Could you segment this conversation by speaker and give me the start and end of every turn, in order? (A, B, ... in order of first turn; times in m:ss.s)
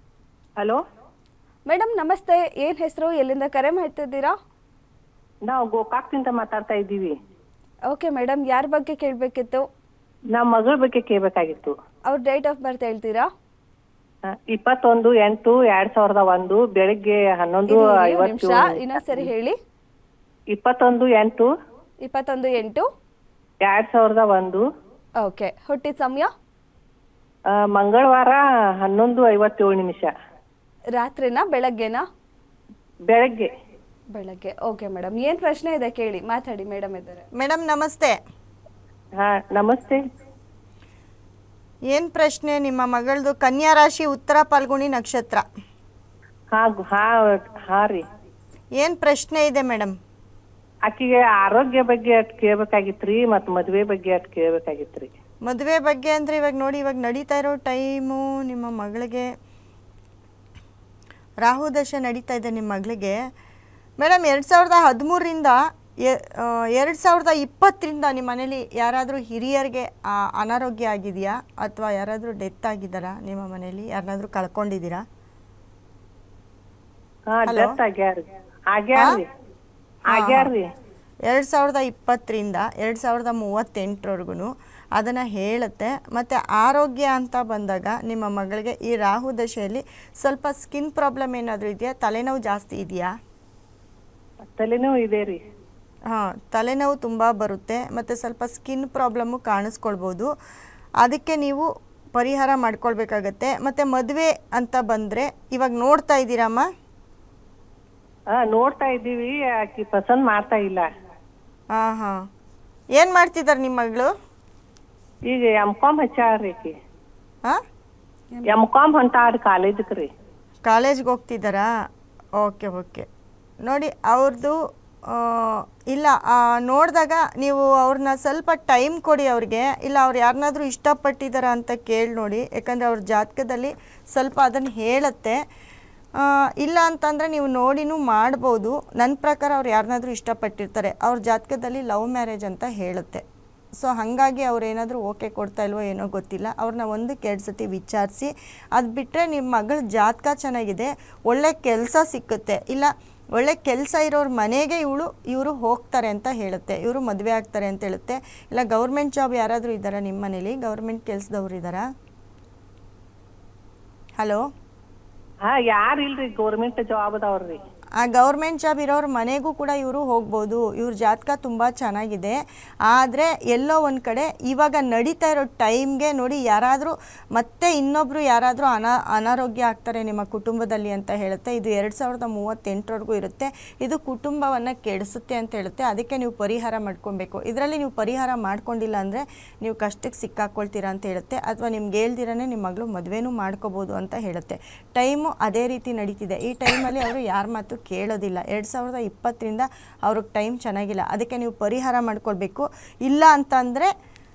0:01.7-0:04.3 A
0:05.5-0:07.1 B
0:07.9-0:09.6 A
0:10.3-0:11.7 B
0:12.1-0:13.3 A
0:14.3-0:19.2 B
0:17.7-0:19.6 A
0:20.5-0:21.5 B
0:22.0-0:22.8 A
0:23.6-0:24.6 B
0:25.2-0:26.3 A
0:27.5-0:30.1 B
0:31.0-0:32.0 A
0:33.1-0:33.5 B
0:34.1-0:37.2 A
0:37.4-0:38.1 C
0:39.2-0:40.0 B
0:41.9-0:45.4 C
0:46.5-0:48.0 B
0:48.8-0:49.9 C
0:50.9-0:55.1 B
0:55.4-0:59.3 C
1:01.4-1:03.2 C
1:04.0-1:15.0 C
1:17.3-1:19.3 B
1:17.4-1:17.7 C
1:20.1-1:20.5 C
1:20.1-1:20.6 B
1:21.3-1:33.1 C
1:34.5-1:35.4 B
1:36.1-1:40.3 C
1:41.0-1:46.6 C
1:48.3-1:50.8 B
1:51.7-1:52.2 C
1:53.0-1:54.1 C
1:55.3-1:56.7 B
1:58.5-2:00.1 B
2:00.6-2:01.7 C
2:02.4-2:03.0 C
2:03.6-2:04.6 C
2:05.1-2:15.4 C
2:16.2-2:23.2 C
2:23.8-2:41.8 C
2:45.5-2:47.6 B
2:48.0-2:52.4 C
2:52.9-3:23.9 C